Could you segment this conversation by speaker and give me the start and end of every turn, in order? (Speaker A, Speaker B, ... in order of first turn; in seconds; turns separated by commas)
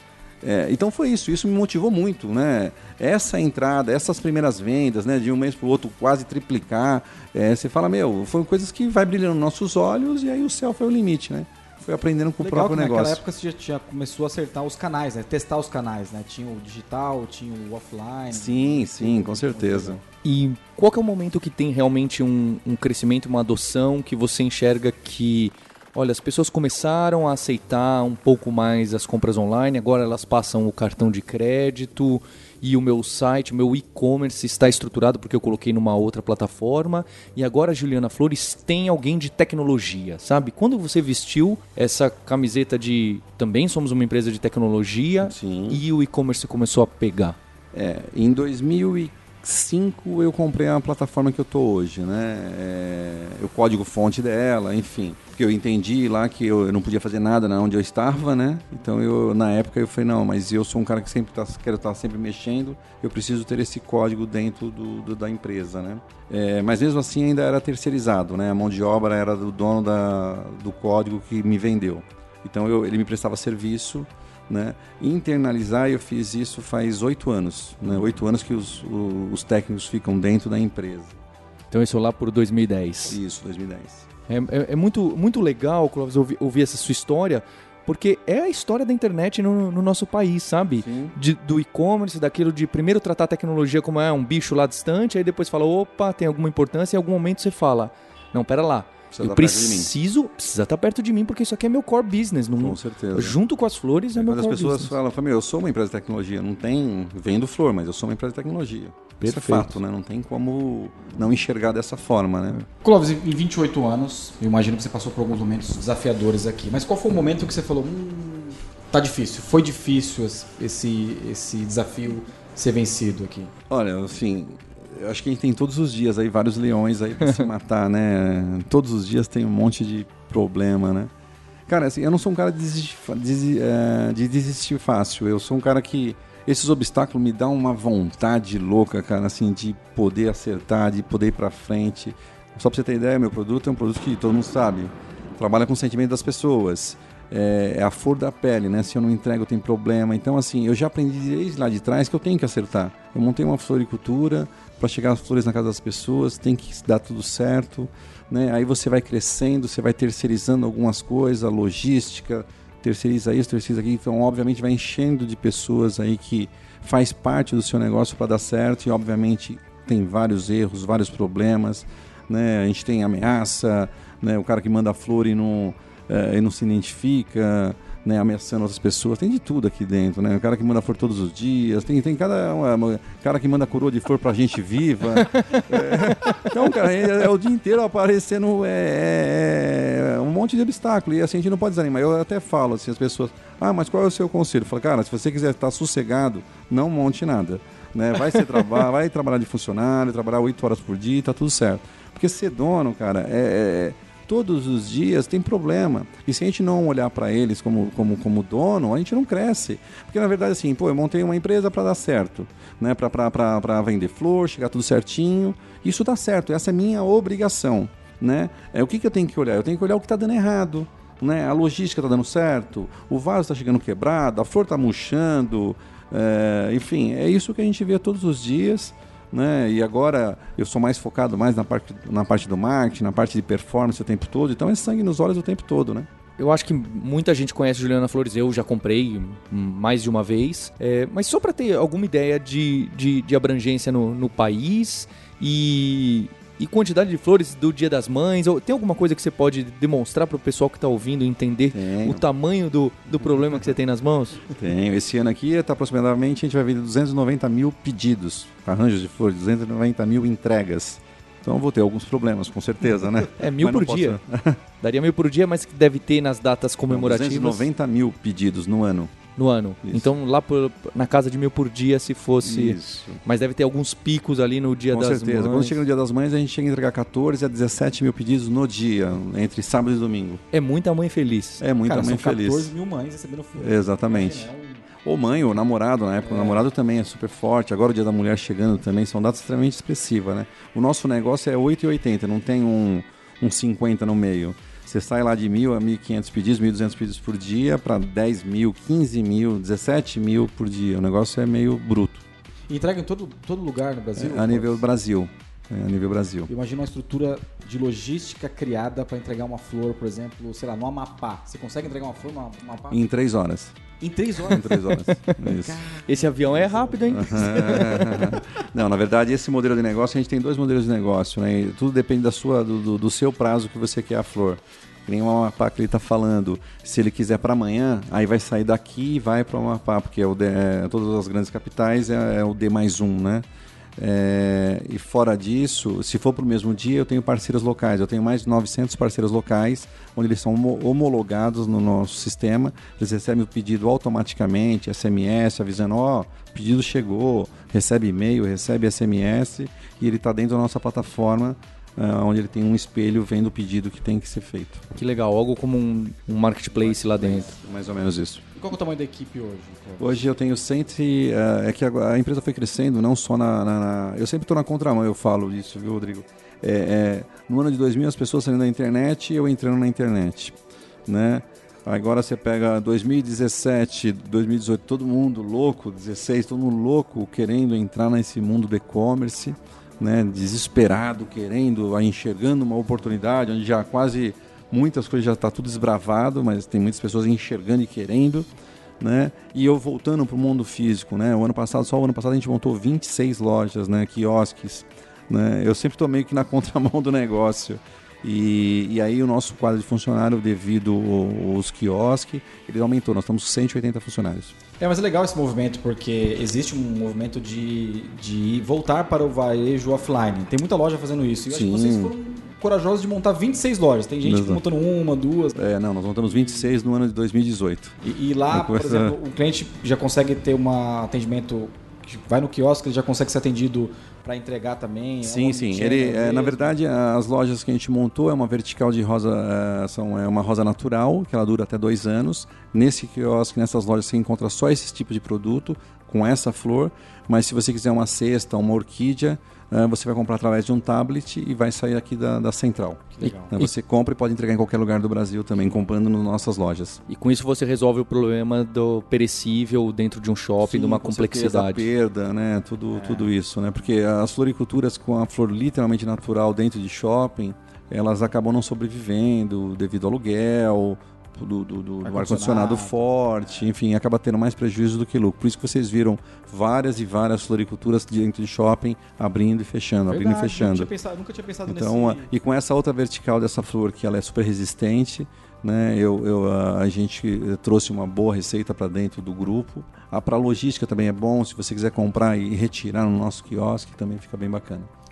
Speaker A: 0.4-13.2, Speaker B: 12.4-20.0, Speaker A: 18.3-20.0, Speaker C: 20.2-47.4, Speaker A: 45.2-45.8, Speaker A: 47.7-81.2, Speaker C: 81.7-83.2, Speaker A: 83.0-84.1, Speaker C: 84.3-105.0, Speaker A: 90.8-91.2, Speaker A: 99.1-99.9, Speaker A: 102.6-103.4, Speaker A: 104.2-112.6, Speaker C: 109.2-109.8, Speaker B: 112.8-123.5, Speaker A: 123.7-131.1, Speaker A: 131.7-236.1, Speaker C: 186.1-186.4, Speaker C: 236.4-254.5, Speaker A: 251.7-252.2, Speaker A: 254.5-264.6, Speaker C: 263.4-264.2, Speaker C: 264.8-267.7, Speaker A: 266.9-269.2, Speaker C: 269.4-275.8, Speaker A: 269.8-270.1, Speaker A: 272.4-273.2, Speaker A: 274.9-280.4, Speaker C: 280.5-281.6, Speaker A: 281.6-282.7, Speaker B: 281.8-284.9, Speaker A: 283.6-284.5, Speaker A: 285.0-302.2, Speaker B: 286.2-286.7, Speaker B: 302.7-304.9, Speaker A: 304.2-306.5, Speaker B: 306.5-313.1, Speaker A: 312.9-313.8, Speaker B: 314.0-318.4, Speaker A: 314.4-315.8, Speaker C: 315.1-315.4, Speaker C: 315.9-318.4, Speaker A: 317.1-333.4, Speaker A: 334.0-354.8, Speaker C: 354.9-357.5, Speaker A: 356.7-358.4, Speaker B: 358.6-360.2, Speaker A: 360.0-370.6, Speaker A: 371.1-388.5, Speaker A: 389.0-404.6, Speaker B: 404.8-415.6, Speaker A: 411.5-412.1, Speaker A: 414.2-414.6, Speaker A: 415.6-418.0, Speaker B: 418.0-426.8, Speaker A: 418.5-419.2, Speaker A: 425.2-447.0, Speaker B: 443.1-443.6, Speaker C: 443.2-443.6, Speaker C: 447.1-451.9, Speaker A: 450.6-470.9, Speaker B: 452.9-453.3, Speaker B: 462.0-463.7, Speaker B: 470.1-472.3, Speaker A: 471.7-484.9